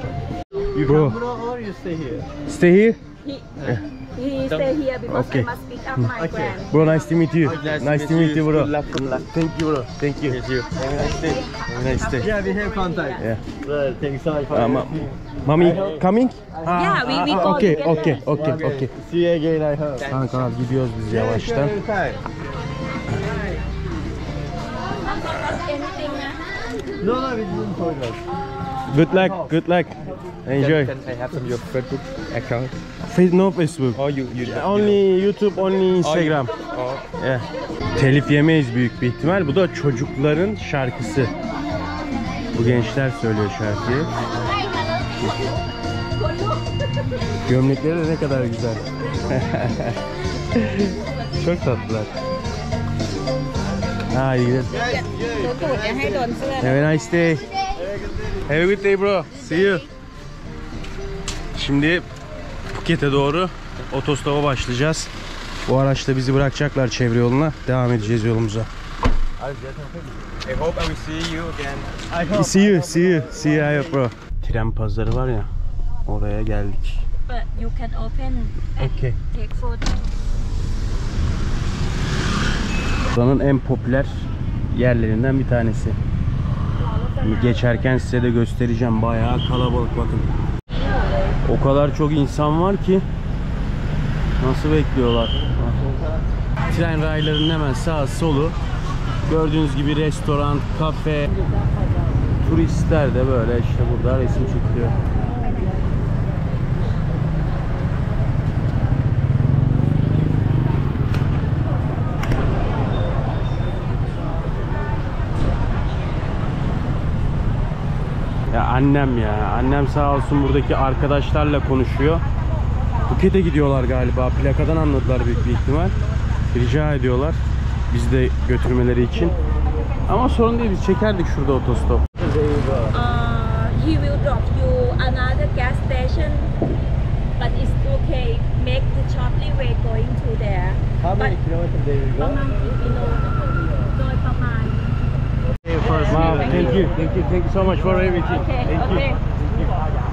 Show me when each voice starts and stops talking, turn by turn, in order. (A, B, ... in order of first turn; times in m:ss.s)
0:00.7-0:02.3 A
0:00.8-0:01.2 B
0:02.5-0:03.0 B
0:03.2-0:07.1 C
0:04.5-0:04.7 D
0:05.1-0:06.1 B
0:06.2-0:06.7 A
0:06.7-0:10.4 B
0:07.4-0:07.9 A
0:07.4-0:09.2 D
0:10.3-0:11.4 D
0:10.8-0:11.4 A
0:11.0-0:13.2 C
0:11.6-0:12.4 B
0:12.2-0:20.1 A
0:14.5-0:18.9 B
0:16.7-0:18.6 C
0:20.0-0:20.5 D
0:20.1-0:21.7 B
0:21.1-0:22.2 A
0:23.2-0:23.6 C
0:25.0-0:26.4 C
0:27.0-0:28.2 A
0:28.9-0:30.9 B
0:29.1-0:29.5 A
0:30.5-0:32.7 D
0:33.1-0:36.5 B
0:33.9-0:35.0 D
0:36.0-0:37.0 D
0:37.2-0:41.3 B
0:42.5-0:44.1 B
0:46.2-0:47.1 C
0:47.4-0:50.0 B
0:50.5-0:52.1 B
0:54.1-0:54.8 B
0:54.7-0:56.5 A
0:56.6-0:57.4 B
0:57.8-0:58.6 A
0:58.4-0:59.8 B
1:01.5-1:02.0 B
1:02.7-1:05.1 B
1:05.7-1:08.7 B
1:09.4-1:10.4 A
1:10.4-1:12.0 D
1:12.1-1:14.0 A
1:12.3-1:15.5 B
1:16.0-1:17.0 B
1:17.3-1:20.0 C
1:18.8-1:19.2 B
1:23.1-1:26.0 B
1:26.8-1:27.9 C
1:27.2-1:30.3 B
1:30.7-1:31.4 C
1:31.4-1:33.0 B
1:34.4-1:35.8 B
1:35.6-1:36.2 A
1:36.7-1:38.6 B
1:39.2-1:41.3 B
1:42.4-1:45.0 B
1:58.5-2:02.2 B
2:03.1-2:05.9 B
2:06.5-2:07.4 B
2:07.9-2:09.4 B
2:10.1-2:12.0 B
2:12.2-2:13.0 A
2:12.9-2:16.5 C
2:17.4-2:21.4 C
2:21.0-2:22.4 A
2:22.2-2:24.8 C
2:25.6-2:26.8 A
2:25.8-2:27.0 C
2:26.0-2:29.0 B
2:27.9-2:29.2 C